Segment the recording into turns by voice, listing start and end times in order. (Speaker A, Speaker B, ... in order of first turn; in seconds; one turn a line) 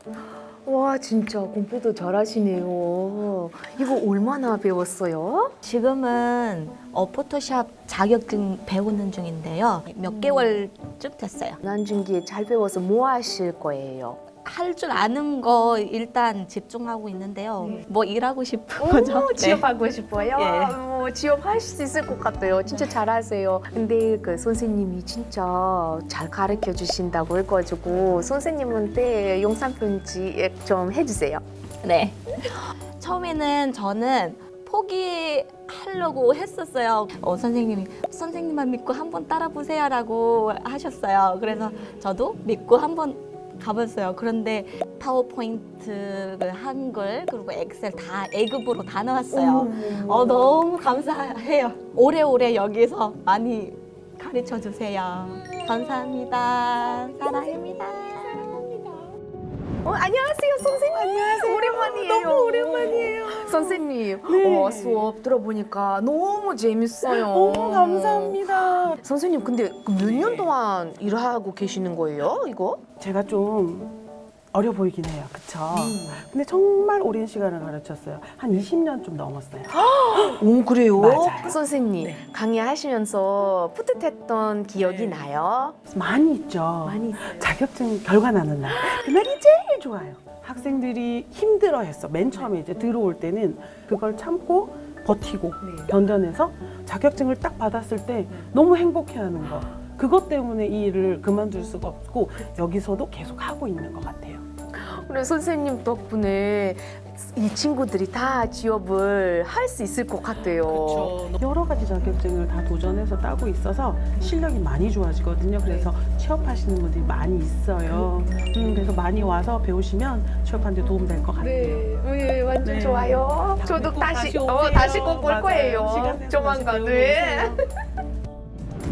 Speaker A: 0.7-5.5
Speaker B: 5.6-11.6
Speaker A: 10.1-10.6
Speaker A: 11.6-14.2
Speaker B: 14.4-19.6
Speaker A: 18.8-31.4
Speaker B: 20.4-20.8
Speaker B: 31.8-58.8
Speaker C: 49.3-50.5
Speaker A: 59.8-68.4
Speaker C: 60.8-65.1
Speaker C: 67.0-69.0
Speaker A: 69.0-72.8
Speaker C: 70.0-70.5
Speaker C: 73.0-74.0
Speaker C: 74.5-80.4
Speaker A: 75.7-76.2
Speaker A: 79.7-85.8
Speaker C: 81.0-81.6
Speaker C: 85.9-104.4
Speaker A: 86.8-87.5
Speaker A: 88.7-89.1
Speaker A: 95.6-95.9
Speaker A: 104.7-111.3
Speaker C: 110.6-121.9
Speaker A: 115.6-115.9
Speaker A: 117.9-118.8
Speaker A: 121.4-127.5
Speaker C: 122.6-127.6